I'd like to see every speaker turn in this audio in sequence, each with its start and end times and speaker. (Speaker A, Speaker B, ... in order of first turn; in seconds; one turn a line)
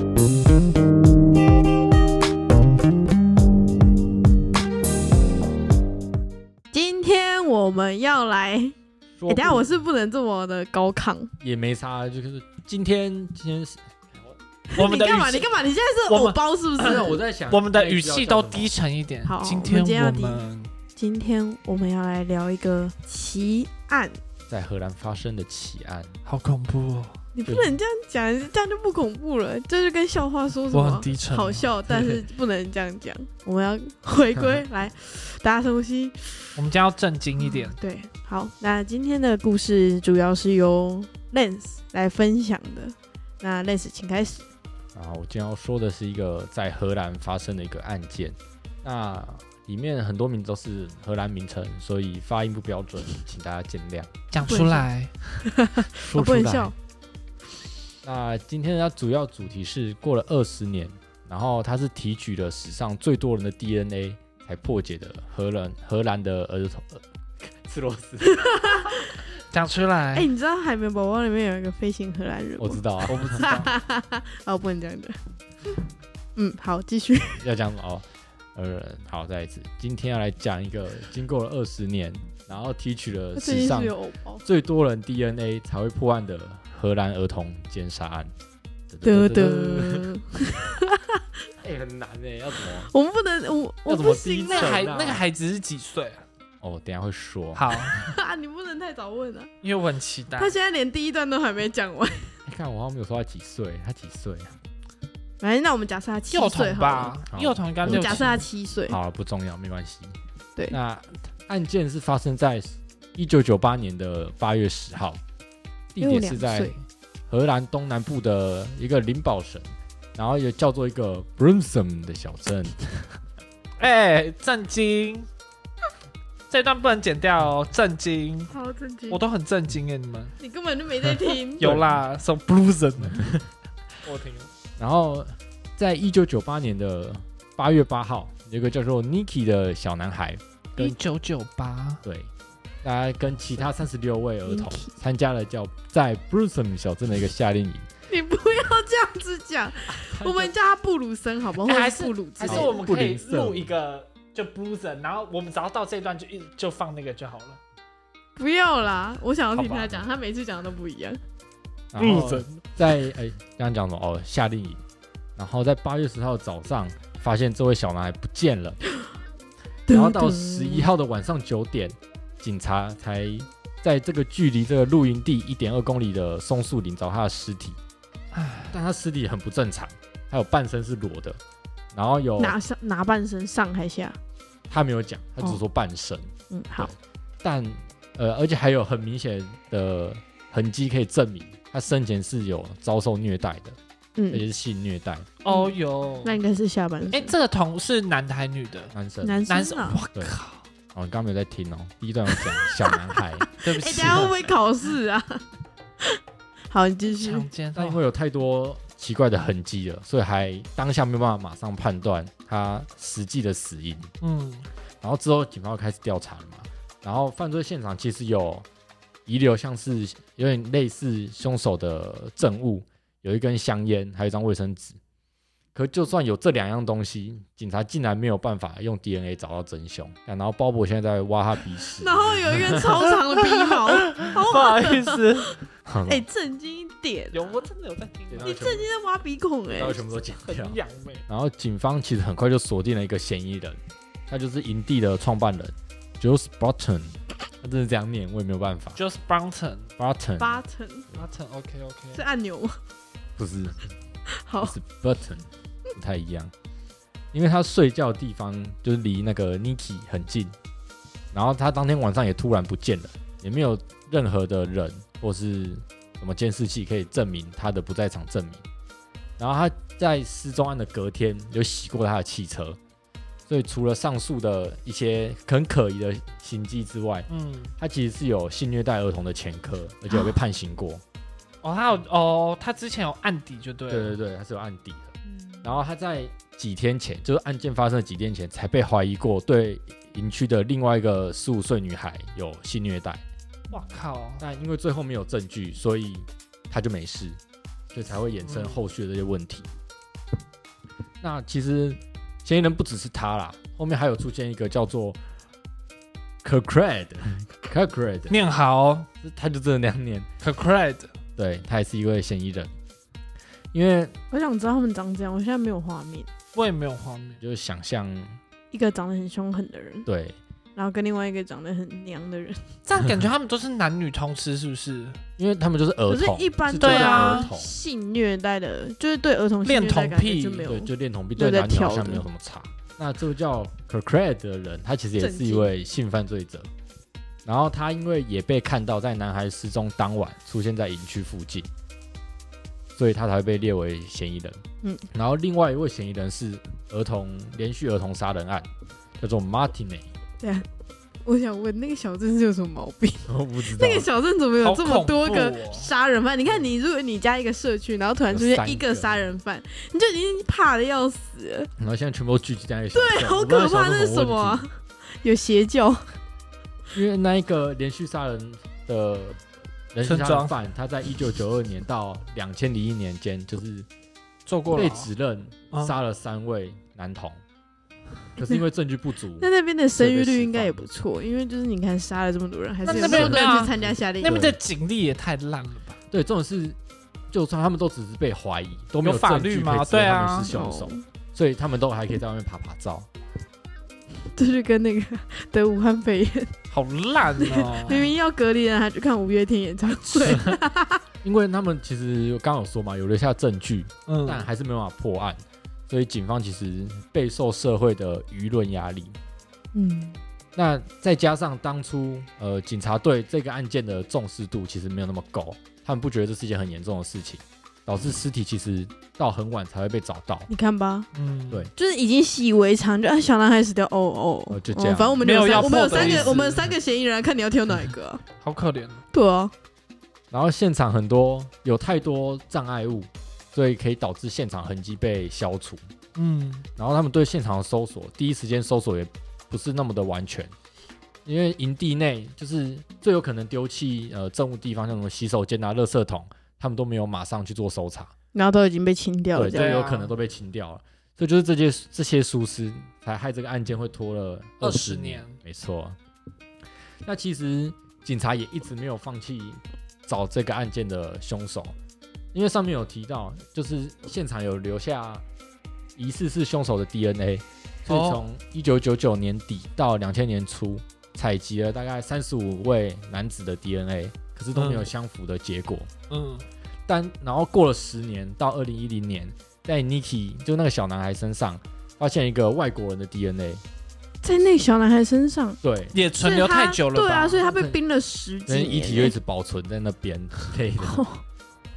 Speaker A: 6.7-8.8
Speaker B: 9.2-9.7
Speaker A: 9.3-11.3
Speaker B: 11.4-14.3
Speaker A: 14.7-17.2
Speaker C: 14.8-20.7
Speaker B: 16.8-18.7
Speaker A: 19.2-24.2
Speaker B: 24.5-26.2
Speaker C: 26.2-27.2
Speaker A: 27.3-36.5
Speaker B: 27.4-27.8
Speaker C: 30.7-31.7
Speaker B: 31.9-32.2
Speaker C: 36.5-37.8
Speaker A: 37.4-44.5
Speaker B: 45.0-54.1
Speaker C: 54.3-55.1
Speaker A: 54.4-54.9
Speaker A: 55.5-56.7
Speaker B: 56.0-56.7
Speaker B: 58.0-69.0
Speaker A: 68.2-69.2
Speaker C: 69.5-70.3
Speaker A: 70.2-75.2
Speaker B: 72.6-73.5
Speaker C: 73.1-73.7
Speaker A: 76.3-77.5
Speaker B: 77.4-83.9
Speaker A: 83.3-84.4
Speaker B: 84.4-88.3
Speaker B: 88.9-90.1
Speaker A: 89.0-91.2
Speaker B: 91.6-92.9
Speaker A: 92.9-94.8
Speaker B: 93.9-95.2
Speaker C: 94.5-96.2
Speaker B: 96.6-97.7
Speaker C: 97.5-98.1
Speaker A: 97.8-99.5
Speaker C: 99.6-100.6
Speaker A: 100.4-102.3
Speaker B: 102.5-104.6
Speaker A: 105.4-107.2
Speaker C: 106.3-108.4
Speaker B: 107.3-110.2
Speaker A: 107.8-109.0
Speaker B: 110.7-115.2
Speaker B: 115.9-116.8
Speaker A: 116.0-116.8
Speaker B: 117.3-123.2
Speaker C: 123.8-125.3
Speaker C: 126.5-128.5
Speaker A: 128.5-129.2
Speaker C: 129.1-130.3
Speaker A: 130.4-131.7
Speaker C: 131.4-133.4
Speaker B: 131.6-132.0
Speaker C: 134.0-134.5
Speaker B: 134.8-141.0
Speaker C: 140.8-142.0
Speaker B: 142.0-142.3
Speaker B: 142.8-147.9
Speaker A: 144.5-144.9
Speaker A: 148.1-152.8
Speaker B: 149.9-150.5
Speaker C: 151.5-157.6
Speaker B: 152.4-153.7
Speaker A: 158.4-161.2
Speaker B: 159.6-160.0
Speaker B: 161.9-164.8
Speaker C: 161.9-162.7
Speaker B: 165.4-168.8
Speaker A: 169.9-170.9
Speaker B: 169.9-177.8
Speaker C: 178.3-178.7
Speaker B: 178.7-181.4
Speaker B: 181.9-182.6
Speaker A: 182.4-184.2
Speaker B: 184.7-193.8
Speaker A: 186.5-186.9
Speaker A: 194.2-194.5
Speaker B: 194.3-195.3
Speaker C: 195.4-196.4
Speaker A: 195.5-197.3
Speaker C: 197.1-198.9
Speaker B: 198.9-199.4
Speaker A: 199.2-200.0
Speaker C: 199.5-200.7
Speaker B: 200.9-203.5
Speaker A: 202.6-205.4
Speaker C: 203.6-204.4
Speaker A: 206.7-207.5
Speaker C: 207.1-208.0
Speaker B: 207.8-214.1
Speaker C: 214.2-214.7
Speaker B: 215.0-218.7
Speaker B: 219.2-225.0
Speaker B: 225.7-233.0
Speaker A: 232.0-235.2
Speaker C: 233.1-235.6
Speaker B: 235.9-236.2
Speaker A: 236.1-237.5
Speaker C: 237.3-238.5
Speaker B: 238.3-238.9
Speaker A: 238.4-240.0
Speaker B: 239.7-249.0
Speaker C: 240.4-241.2
Speaker C: 248.9-249.9
Speaker B: 250.0-250.6
Speaker A: 250.4-251.1
Speaker C: 251.1-252.2
Speaker A: 252.1-252.8
Speaker B: 253.4-253.9
Speaker A: 254.4-254.8
Speaker B: 254.6-256.5
Speaker B: 257.3-260.5
Speaker B: 261.3-268.6
Speaker B: 269.4-272.8
Speaker B: 273.5-281.0
Speaker C: 277.3-277.7
Speaker C: 281.6-284.2
Speaker B: 283.9-293.2
Speaker C: 293.7-294.4
Speaker B: 294.4-297.4
Speaker B: 297.9-299.7
Speaker C: 298.4-298.8
Speaker B: 301.2-305.2
Speaker B: 306.4-308.4
Speaker C: 308.3-309.1
Speaker B: 309.2-310.3
Speaker C: 310.4-311.1
Speaker B: 311.4-312.7
Speaker B: 313.7-314.1
Speaker A: 314.3-316.3
Speaker C: 316.6-317.4
Speaker B: 317.4-318.4
Speaker A: 318.7-320.1
Speaker B: 320.1-320.4
Speaker A: 320.8-322.8
Speaker C: 322.9-325.2
Speaker B: 325.4-327.8
Speaker A: 326.1-332.2
Speaker C: 326.8-327.5
Speaker C: 329.6-330.7
Speaker B: 330.7-336.7
Speaker A: 335.2-335.7
Speaker B: 337.4-341.7
Speaker B: 342.9-344.6
Speaker B: 345.1-348.7
Speaker B: 349.2-350.1
Speaker A: 350.4-350.7
Speaker A: 351.2-361.7
Speaker B: 353.3-354.1
Speaker C: 354.6-355.9
Speaker B: 358.3-359.2
Speaker B: 361.8-364.7
Speaker A: 362.9-366.1
Speaker B: 366.9-369.4
Speaker B: 369.9-373.9
Speaker C: 370.0-370.6
Speaker C: 374.4-375.1
Speaker B: 374.7-377.4
Speaker B: 378.4-380.9
Speaker A: 379.4-384.4
Speaker B: 382.8-384.6
Speaker C: 382.8-386.0
Speaker B: 386.1-386.8
Speaker B: 387.3-393.1
Speaker C: 389.0-390.5
Speaker A: 390.5-391.1
Speaker A: 394.3-396.6
Speaker C: 396.7-398.1
Speaker A: 397.4-401.0
Speaker B: 400.1-400.6
Speaker B: 401.2-409.2
Speaker C: 404.1-404.5
Speaker A: 409.7-410.2
Speaker B: 410.6-420.5
Speaker A: 420.5-421.1
Speaker C: 421.1-421.7
Speaker A: 421.8-428.2
Speaker B: 424.5-426.4
Speaker C: 425.2-426.7
Speaker C: 428.4-429.0
Speaker A: 429.1-429.5
Speaker B: 430.3-435.8
Speaker C: 436.2-436.7
Speaker B: 436.8-440.5
Speaker B: 441.2-448.1
Speaker A: 448.3-449.8
Speaker B: 449.4-456.0
Speaker C: 449.5-450.1
Speaker C: 454.6-455.4
Speaker B: 457.1-461.8
Speaker B: 462.3-465.2
Speaker B: 465.9-475.9
Speaker C: 467.9-468.2
Speaker C: 474.5-474.9
Speaker C: 476.1-476.4
Speaker B: 476.9-483.6
Speaker A: 484.2-485.6
Speaker B: 485.6-486.0
Speaker C: 485.9-487.4
Speaker A: 486.2-489.1
Speaker B: 487.4-487.8
Speaker B: 488.5-491.1
Speaker A: 490.8-491.2